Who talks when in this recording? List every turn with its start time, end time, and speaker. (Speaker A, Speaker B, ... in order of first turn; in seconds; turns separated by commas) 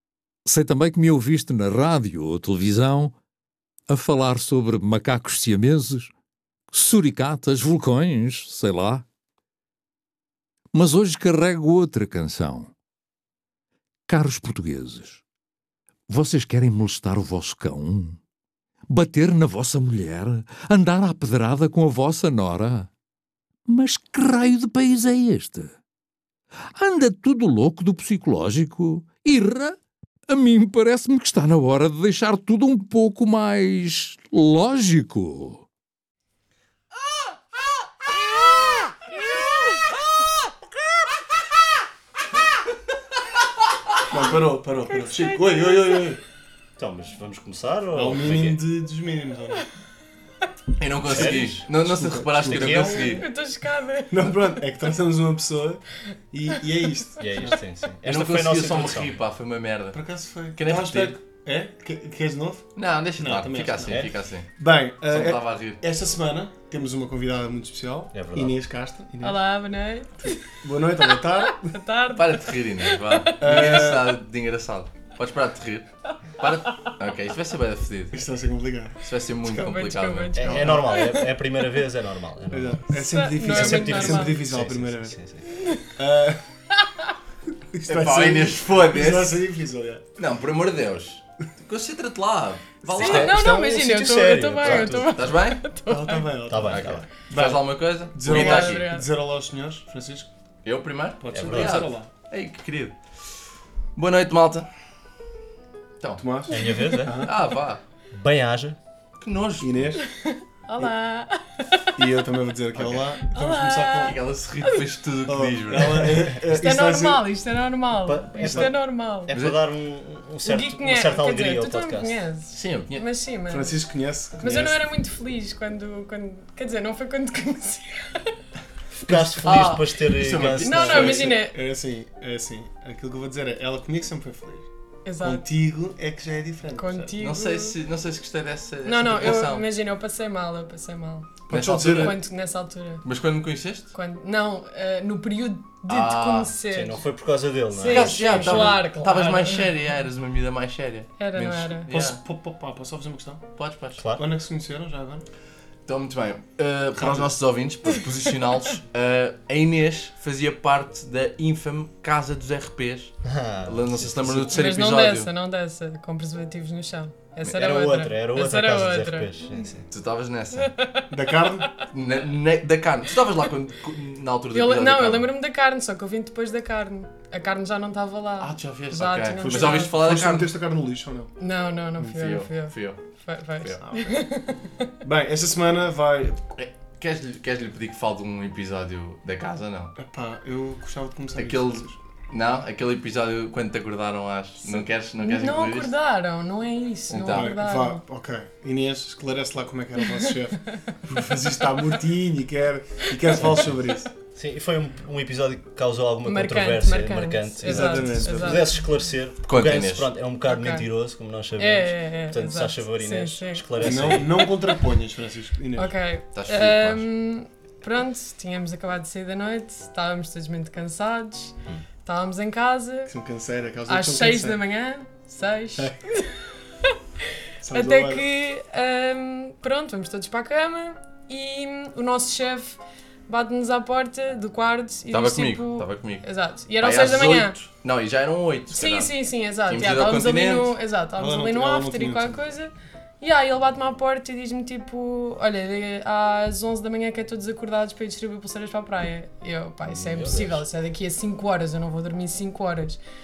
Speaker A: 0.4-3.1, Speaker A: 3.9-6.1, Speaker A: 6.7-9.0, Speaker A: 10.7-12.7, Speaker A: 14.1-15.2, Speaker A: 16.1-18.2, Speaker A: 18.9-22.9, Speaker A: 23.7-25.7, Speaker A: 26.7-29.8, Speaker A: 30.3-35.6, Speaker B: 44.1-46.2, Speaker C: 44.9-46.1, Speaker D: 46.8-48.6, Speaker B: 47.9-49.6, Speaker E: 50.8-53.2, Speaker D: 51.0-51.7, Speaker B: 51.1-52.9, Speaker D: 52.3-53.1, Speaker C: 52.9-54.3, Speaker B: 54.1-57.5, Speaker D: 57.2-59.1, Speaker E: 58.0-60.0, Speaker B: 59.9-69.4, Speaker E: 60.5-61.2, Speaker E: 62.8-64.5, Speaker D: 63.9-64.1, Speaker E: 65.1-65.8, Speaker D: 68.1-68.5, Speaker C: 69.2-70.4, Speaker B: 70.5-71.7, Speaker C: 71.6-73.8, Speaker E: 72.1-78.3, Speaker B: 73.4-74.2, Speaker B: 78.1-79.0, Speaker E: 79.0-80.5, Speaker C: 79.5-81.3, Speaker D: 80.3-82.8, Speaker B: 80.4-80.9, Speaker B: 82.5-85.1, Speaker C: 82.9-84.4, Speaker D: 83.4-85.4, Speaker C: 85.5-85.9, Speaker B: 86.0-86.4, Speaker C: 86.7-87.1, Speaker B: 87.7-90.0, Speaker E: 87.9-89.4, Speaker E: 90.2-93.4, Speaker C: 92.9-96.3, Speaker D: 92.9-95.1, Speaker E: 94.7-95.6, Speaker B: 95.8-100.3, Speaker D: 96.5-97.0, Speaker E: 96.7-98.9, Speaker C: 98.2-99.0, Speaker E: 100.6-103.0, Speaker B: 101.2-102.1, Speaker D: 101.3-101.9, Speaker E: 103.9-104.7, Speaker B: 106.2-107.3, Speaker D: 106.5-107.2, Speaker C: 106.5-107.1, Speaker E: 107.2-107.8, Speaker D: 108.1-108.8, Speaker E: 109.2-109.9, Speaker B: 109.6-110.0, Speaker C: 110.0-112.0, Speaker B: 112.0-114.2, Speaker E: 112.7-113.0, Speaker C: 113.2-114.1, Speaker E: 114.0-116.1, Speaker B: 115.3-117.2, Speaker C: 116.5-119.3, Speaker D: 118.0-122.1, Speaker B: 118.4-118.7, Speaker E: 119.3-119.6, Speaker C: 120.4-123.7, Speaker E: 122.5-123.0, Speaker B: 123.5-124.8, Speaker C: 124.4-128.3, Speaker D: 128.9-131.3, Speaker B: 129.1-129.7, Speaker E: 129.4-131.3, Speaker C: 130.6-131.6, Speaker B: 130.8-134.7, Speaker C: 135.0-135.4, Speaker B: 135.2-137.1, Speaker C: 136.8-137.8, Speaker E: 137.2-139.7, Speaker C: 138.8-141.3, Speaker B: 141.5-142.2, Speaker E: 141.5-142.2, Speaker C: 141.8-143.0, Speaker E: 143.0-143.9, Speaker C: 143.9-147.0, Speaker E: 145.9-146.5, Speaker D: 146.7-148.8, Speaker C: 147.7-149.7, Speaker E: 147.8-152.2, Speaker C: 151.2-151.9, Speaker B: 151.9-153.4, Speaker E: 153.6-154.0, Speaker D: 154.0-154.2, Speaker B: 154.1-155.2, Speaker E: 155.8-165.3, Speaker B: 156.9-157.3, Speaker D: 163.2-164.6, Speaker C: 164.5-169.3, Speaker D: 167.5-169.8, Speaker E: 169.9-170.7, Speaker C: 170.6-171.1, Speaker B: 171.1-171.7, Speaker E: 171.8-175.3, Speaker C: 174.5-179.9, Speaker E: 178.4-180.5, Speaker B: 179.4-181.3, Speaker C: 181.4-184.9, Speaker E: 182.0-183.0, Speaker B: 183.8-184.1, Speaker B: 185.0-186.5, Speaker E: 186.6-189.9, Speaker B: 190.0-191.9, Speaker E: 191.3-195.9, Speaker C: 194.6-198.0, Speaker E: 197.1-197.5, Speaker B: 197.3-204.1, Speaker D: 203.4-203.7, Speaker D: 204.3-214.3, Speaker C: 206.2-208.8, Speaker B: 207.6-208.7, Speaker E: 209.5-210.1, Speaker C: 210.5-210.9, Speaker C: 211.6-214.8, Speaker B: 213.8-215.9, Speaker C: 215.8-221.5, Speaker E: 216.3-217.0, Speaker C: 222.0-223.1, Speaker B: 223.1-224.6, Speaker C: 223.9-226.3, Speaker B: 227.6-228.2, Speaker C: 227.7-237.6, Speaker E: 235.1-236.2, Speaker E: 236.8-239.1, Speaker C: 238.7-253.0, Speaker E: 239.7-240.7, Speaker B: 241.2-242.4, Speaker D: 249.9-250.6